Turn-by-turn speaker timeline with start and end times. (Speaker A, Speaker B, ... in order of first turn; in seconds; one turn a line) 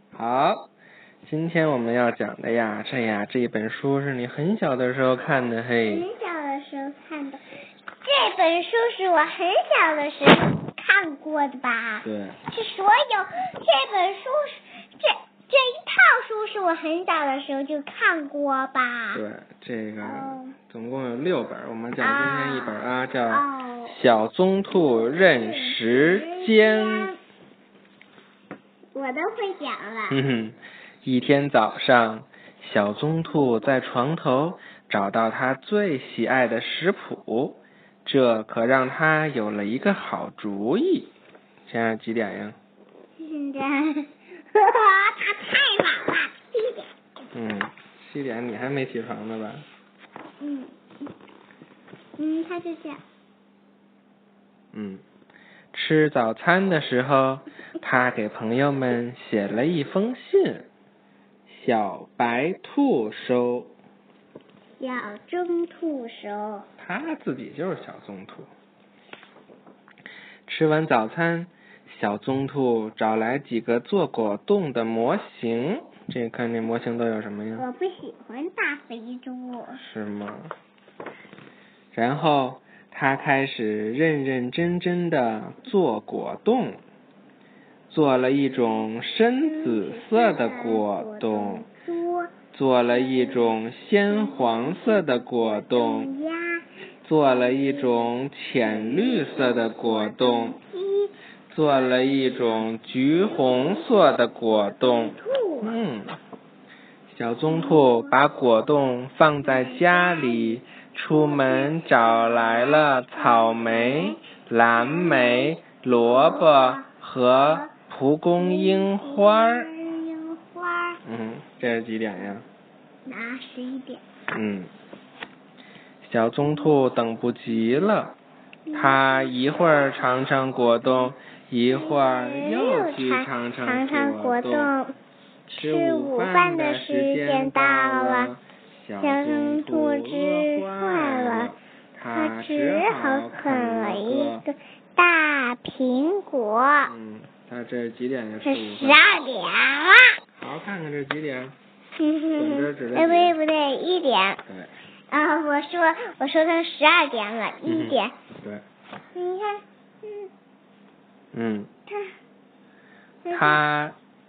Speaker A: 0.1-0.7
Speaker A: 1.2-6.1
Speaker B: 5.9-7.4
Speaker B: 8.0-19.2
Speaker A: 12.0-12.4
Speaker A: 19.1-27.1
Speaker B: 20.0-20.5
Speaker B: 22.0-23.9
Speaker B: 24.7-27.2
Speaker B: 28.9-30.2
Speaker A: 30.1-41.1
Speaker A: 41.6-42.6
Speaker B: 43.2-46.9
Speaker A: 47.3-49.6
Speaker B: 50.4-50.7
Speaker B: 52.2-53.0
Speaker A: 54.7-55.0
Speaker A: 55.7-60.7
Speaker A: 61.5-63.7
Speaker B: 64.8-66.7
Speaker A: 66.8-68.5
Speaker A: 70.5-77.7
Speaker B: 77.5-79.8
Speaker A: 79.8-80.5
Speaker A: 81.9-86.8
Speaker A: 87.9-91.7
Speaker B: 89.4-92.3
Speaker A: 92.5-96.1
Speaker B: 92.9-93.5
Speaker B: 94.1-96.7
Speaker A: 97.0-100.6
Speaker B: 97.3-98.1
Speaker B: 98.6-102.6
Speaker A: 101.5-106.2
Speaker B: 103.1-105.8
Speaker A: 107.1-119.7
Speaker B: 107.5-108.2
Speaker B: 109.4-110.6
Speaker B: 111.1-114.2
Speaker B: 114.7-117.7
Speaker B: 118.4-121.0
Speaker A: 121.0-122.5
Speaker B: 123.0-124.0
Speaker A: 124.3-124.7
Speaker A: 126.0-128.2
Speaker B: 128.7-129.5
Speaker A: 128.7-134.7
Speaker B: 131.7-134.9
Speaker A: 135.5-144.4
Speaker B: 135.5-138.3
Speaker B: 139.0-141.5
Speaker B: 142.1-146.9
Speaker A: 146.8-149.0
Speaker B: 148.4-150.1
Speaker A: 150.4-151.5
Speaker B: 152.0-154.4
Speaker A: 152.4-153.3
Speaker A: 154.4-154.7
Speaker B: 155.1-158.1
Speaker A: 157.7-158.6
Speaker B: 159.1-160.3
Speaker A: 161.3-161.7
Speaker B: 163.2-163.6
Speaker A: 163.3-164.0